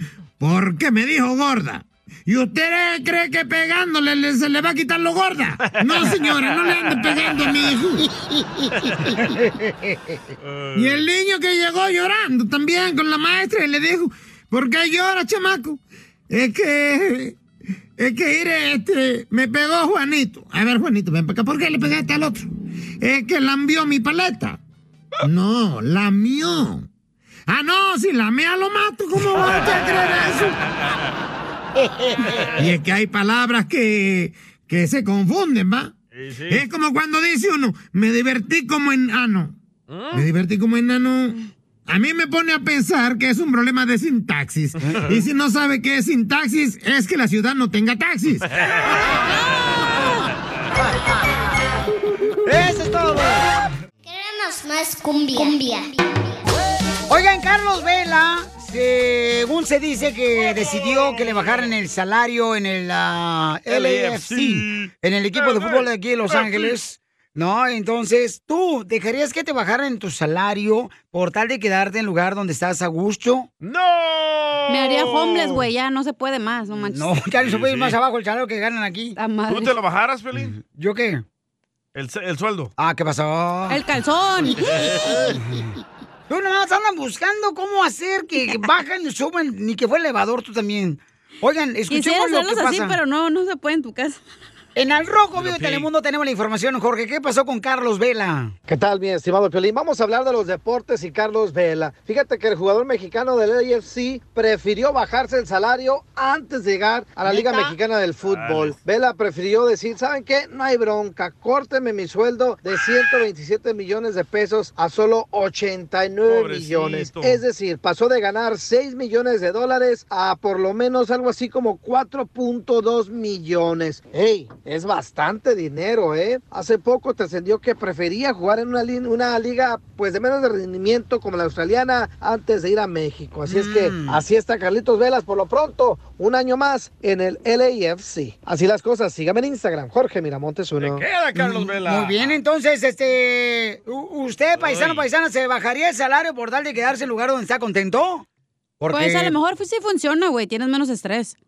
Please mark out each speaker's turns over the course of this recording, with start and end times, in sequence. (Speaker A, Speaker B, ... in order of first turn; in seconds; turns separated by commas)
Speaker A: 0.4-8.1, Speaker B: 5.7-7.6, Speaker C: 8.0-10.2, Speaker B: 8.9-9.2, Speaker B: 10.4-11.0, Speaker A: 10.7-17.4, Speaker A: 18.0-22.5, Speaker A: 23.0-24.6, Speaker A: 25.2-26.9, Speaker A: 27.5-30.6, Speaker B: 29.4-29.8, Speaker C: 31.7-32.5, Speaker A: 32.6-35.9, Speaker B: 36.1-36.6, Speaker A: 36.5-39.6, Speaker B: 39.9-40.3, Speaker A: 40.1-41.4, Speaker A: 41.9-48.5, Speaker B: 48.5-49.0, Speaker C: 50.9-51.1, Speaker C: 52.4-53.5, Speaker D: 54.0-56.2, Speaker C: 57.1-73.5, Speaker B: 60.8-61.7, Speaker B: 63.7-66.8, Speaker B: 73.6-75.7, Speaker E: 74.7-77.1, Speaker C: 76.8-79.2, Speaker B: 77.4-78.0, Speaker E: 79.2-79.7, Speaker B: 79.5-80.5, Speaker C: 80.4-81.2, Speaker B: 81.9-82.7, Speaker C: 82.8-83.8, Speaker E: 83.7-84.9, Speaker B: 84.5-85.4, Speaker C: 85.3-85.7, Speaker C: 86.3-93.0, Speaker E: 91.9-94.2, Speaker C: 94.8-98.5, Speaker B: 95.3-95.9, Speaker F: 98.7-141.1, Speaker C: 107.2-107.7, Speaker B: 108.2-108.8, Speaker B: 116.2-117.4, Speaker C: 133.5-134.2, Speaker B: 140.8-142.4, Speaker C: 141.3-148.2, Speaker B: 144.5-145.0, Speaker C: 148.8-149.4, Speaker E: 148.9-151.3